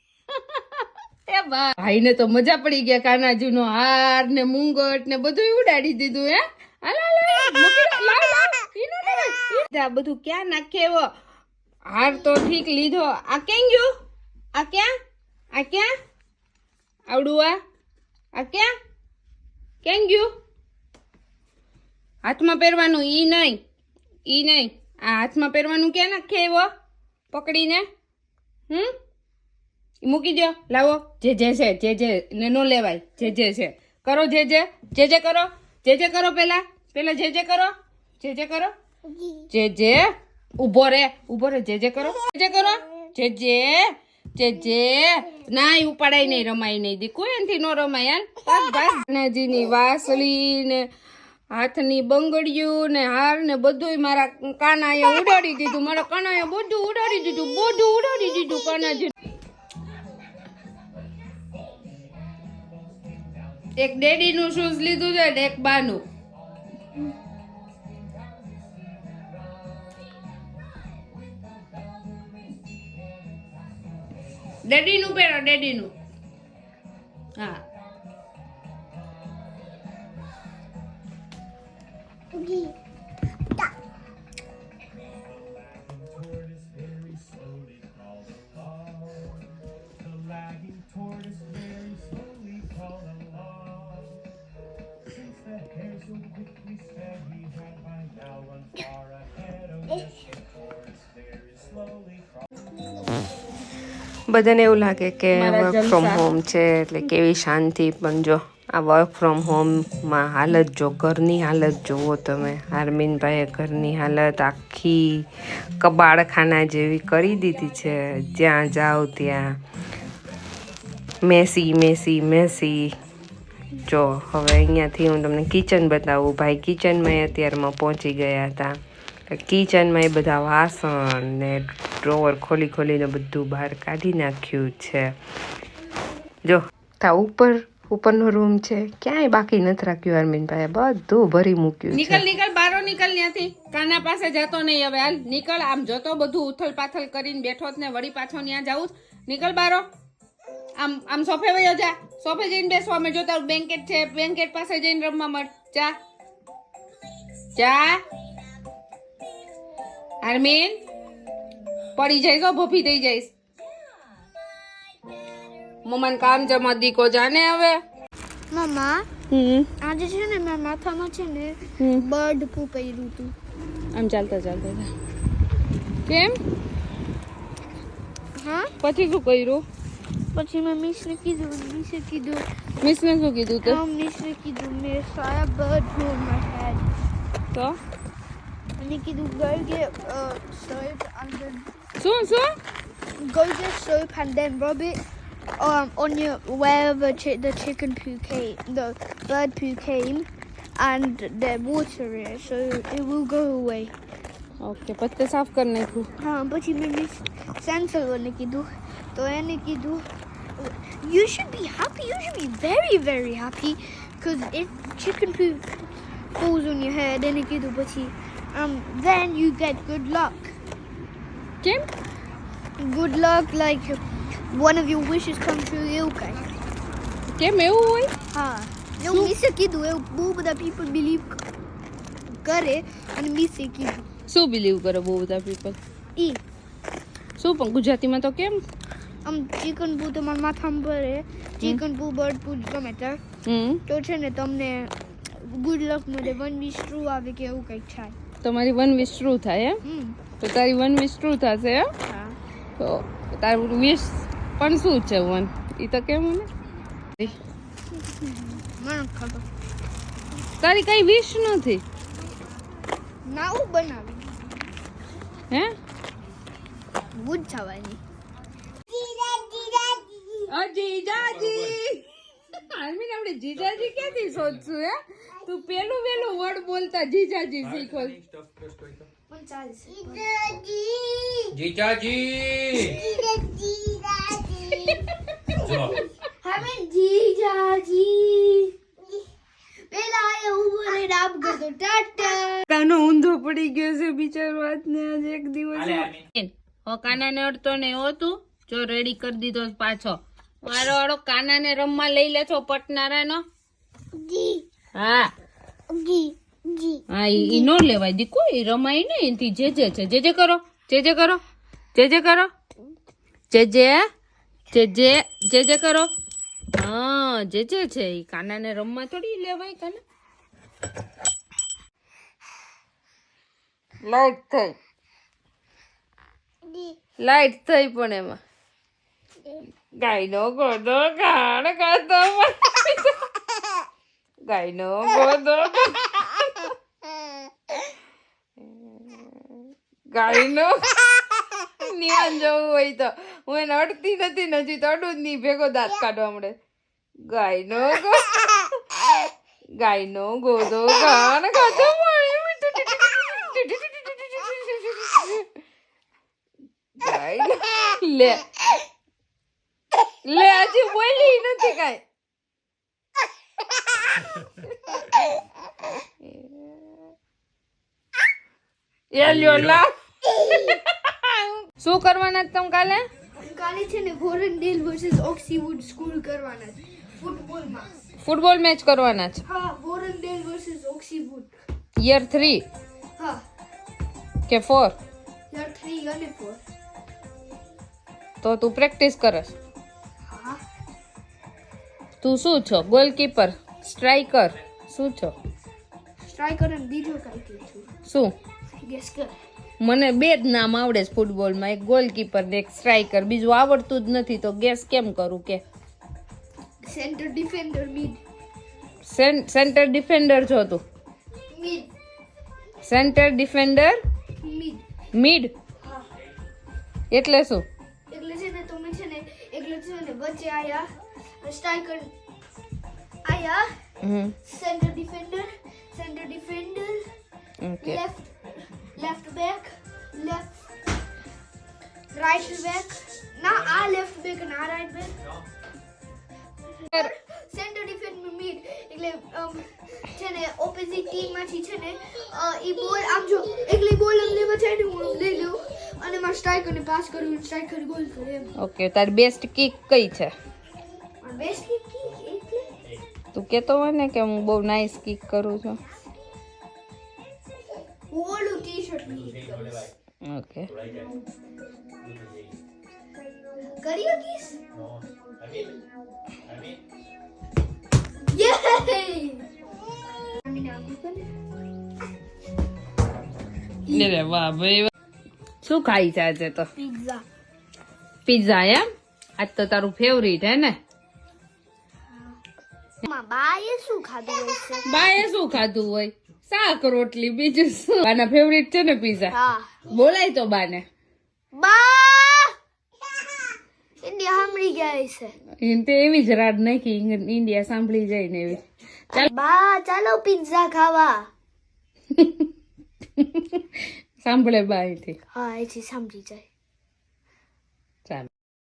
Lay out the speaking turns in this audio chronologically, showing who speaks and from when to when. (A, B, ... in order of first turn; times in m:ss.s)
0:00.3-0:11.1 A
0:11.9-0:13.9 A
0:14.5-0:14.9 A
0:15.5-0:15.9 A
0:17.1-0:17.6 A
0:18.3-0:18.7 A
0:19.8-0:20.3 A
0:22.2-0:23.6 A
0:24.3-0:26.7 A
0:27.3-0:27.9 A
0:30.0-0:38.7 A
0:39.5-0:50.9 A
0:51.5-0:59.2 A
1:03.8-1:06.0 A
1:14.6-1:15.9 A
1:17.4-1:17.6 A
1:44.3-1:59.6 B
1:45.3-1:46.3 A
2:01.2-2:02.9 B
2:03.8-2:15.2 B
2:16.4-2:22.2 B
2:21.9-2:29.9 A
2:30.8-2:36.0 A
2:37.6-2:38.0 A
2:40.2-2:40.8 A
2:42.0-2:43.3 A
2:45.8-2:47.8 A
2:48.5-2:49.1 C
2:49.3-2:49.7 A
2:49.8-2:53.3 C
2:51.8-2:52.1 A
2:53.9-2:54.9 A
2:56.1-2:56.4 A
2:58.4-2:58.7 C
2:58.8-2:59.6 A
3:00.3-3:02.4 C
3:02.8-3:03.8 A
3:03.6-3:06.8 C
3:07.5-3:07.8 A
3:08.8-3:11.7 C
3:12.0-3:12.5 A
3:13.2-3:15.0 C
3:15.6-3:20.3 C
3:20.8-3:23.9 C
3:24.6-3:26.1 A
3:26.2-3:30.0 C
3:30.6-3:35.6 C
3:36.4-3:40.5 C
3:41.6-3:41.9 A
3:42.8-3:46.5 C
3:47.3-3:48.1 A
3:48.3-3:51.4 C
3:49.0-3:49.3 A
3:52.4-3:54.1 C
3:54.3-3:55.8 A
3:57.4-3:58.6 A
3:59.2-4:03.2 C
4:03.4-4:03.8 A
4:03.9-4:08.2 C
4:08.4-4:09.8 A
4:09.8-4:10.2 C
4:10.4-4:11.9 A
4:12.1-4:12.4 C
4:12.8-4:16.5 A
4:18.2-4:19.4 C
4:20.6-4:21.8 A
4:23.3-4:24.3 C
4:27.1-4:28.0 C
4:28.9-4:30.3 C
4:30.5-4:38.2 A
4:39.3-4:41.4 C
4:41.6-4:42.8 A
4:42.7-4:49.2 C
4:44.8-4:45.0 A
4:49.9-4:52.6 C
4:52.7-5:03.4 A
5:04.2-5:04.5 C
5:05.0-5:05.3 A
5:06.0-5:06.3 C
5:07.1-5:11.4 A
5:11.9-5:12.5 A
5:13.5-5:14.1 A
5:14.7-5:16.1 A
5:16.7-5:20.0 A
5:24.0-5:24.8 A
5:27.2-5:28.4 A
5:30.0-5:33.2 A
5:34.4-5:36.7 A
5:38.7-5:39.3 A
5:40.1-5:41.0 A
5:41.6-5:46.6 A
5:47.3-5:48.7 A
5:49.8-5:55.5 A
5:57.0-5:58.5 A
6:00.2-6:02.0 A
6:06.2-6:06.9 A
6:09.1-6:13.1 A
6:13.4-6:18.0 C
6:18.2-6:19.4 A
6:19.5-6:21.5 C
6:22.0-6:22.6 A
6:24.5-6:25.0 A
6:25.5-6:26.6 C
6:28.4-6:29.6 A
6:30.3-6:30.6 C
6:32.2-6:35.4 A
6:36.2-6:37.9 C
6:38.0-6:38.3 A
6:38.8-6:39.3 C
6:39.8-6:45.6 A
6:46.8-6:48.2 C
6:49.0-6:50.8 A
6:51.5-6:51.9 C
6:52.8-6:54.0 A
6:54.4-6:54.8 C
6:55.1-6:55.5 A
6:57.1-6:57.6 A
6:58.1-7:00.9 C
7:01.4-7:02.1 C
7:03.2-7:03.6 C
7:04.0-7:04.3 A
7:04.4-7:07.0 C
7:07.6-7:08.0 A
7:07.8-7:10.5 C
7:12.1-7:15.2 C
7:16.8-7:28.6 C
7:28.6-7:30.3 A
7:31.2-7:32.8 C
7:33.3-7:35.8 A
7:38.1-7:39.9 C
7:40.2-7:40.7 A
7:43.7-7:44.6 C
7:48.3-7:49.5 C
7:50.4-7:51.3 C
7:53.9-7:54.9 A
7:55.6-7:56.7 A
7:56.8-7:57.2 C
7:58.3-8:00.8 A
8:02.1-8:02.4 C
8:03.0-8:04.9 C
8:04.8-8:10.8 A
8:09.3-8:09.8 C
8:11.5-8:12.6 C
8:14.0-8:15.4 C
8:15.6-8:19.3 A
8:19.1-8:21.3 C
8:22.1-8:22.5 A
8:23.2-8:25.2 A
8:25.3-8:26.5 C